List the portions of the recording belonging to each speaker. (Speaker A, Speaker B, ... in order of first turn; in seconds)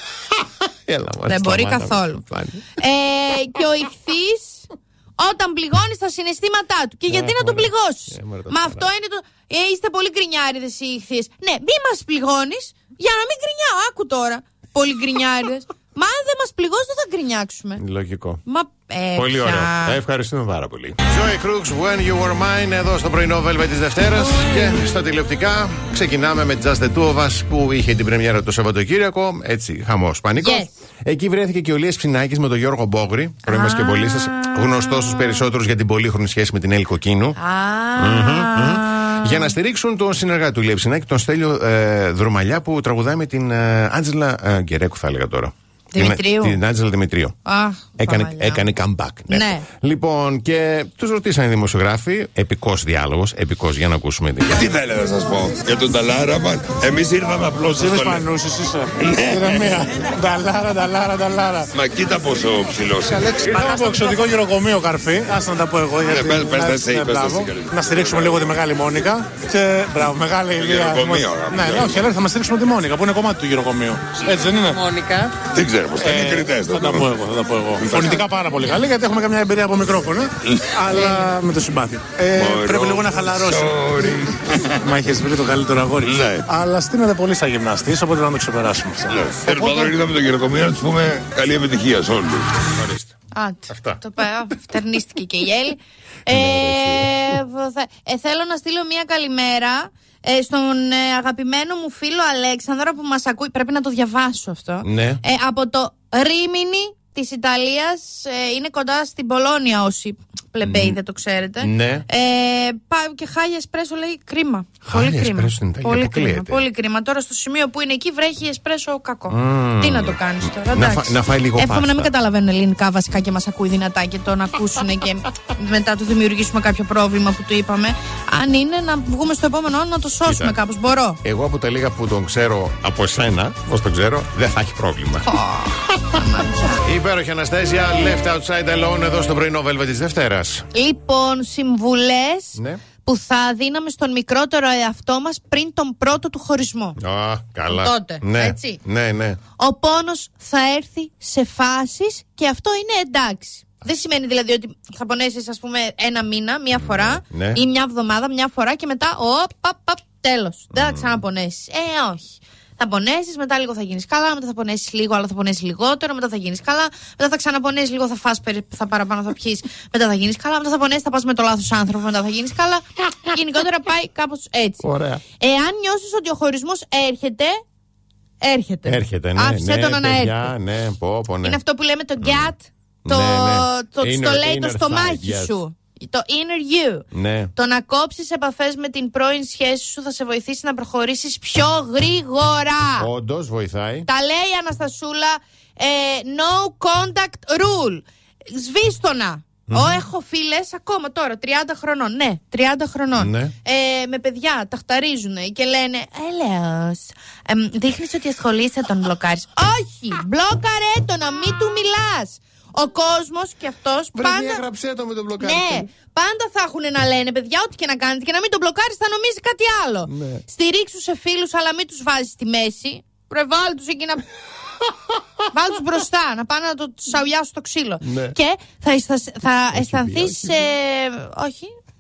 Speaker A: 0.4-2.7, 7.1-8.9, 17.8-18.4, 19.1-37.4, 38.0-47.4, 48.0-54.6, 92.8-93.2, 93.7-94.0, 96.3-97.4, 104.8-105.2, 110.6-111.0, 111.6-112.1, 114.9-116.6, 119.3-120.2, 120.7-122.1, 130.2-130.6, 131.2-135.3, 136.8-140.7, 142.6-142.8, 147.0-149.4, 156.8-157.6, 160.7-161.2, 174.8-175.2, 178.8-181.6, 182.2-182.5, 183.1-185.6, 187.1-187.5, 193.0-194.1, 199.7-200.0, 203.2-203.5, 214.2-215.9, 220.1-220.4, 228.0-228.4, 229.7-230.7
Speaker B: 1.3-2.2, 2.8-17.8, 18.5-20.0, 30.4-30.8, 33.5-35.4, 37.4-39.5, 45.9-46.6, 47.5-48.6, 49.3-49.7, 93.3-131.2, 135.2-136.8, 140.7-147.0, 147.7-148.8, 149.6-174.8, 175.4-177.6, 178.4-180.5, 181.4-193.1, 194.1-214.6, 215.4-224.3, 225.5-231.7
Speaker C: 54.5-58.3, 59.0-59.8, 61.7-64.1, 66.0-68.6, 70.5-72.1, 75.5-77.2, 77.8-78.3, 80.5-81.0, 82.3-84.7, 86.0-86.5, 89.1-92.6
Speaker D: 57.8-61.7, 63.1-75.4, 76.0-83.7, 84.8-89.9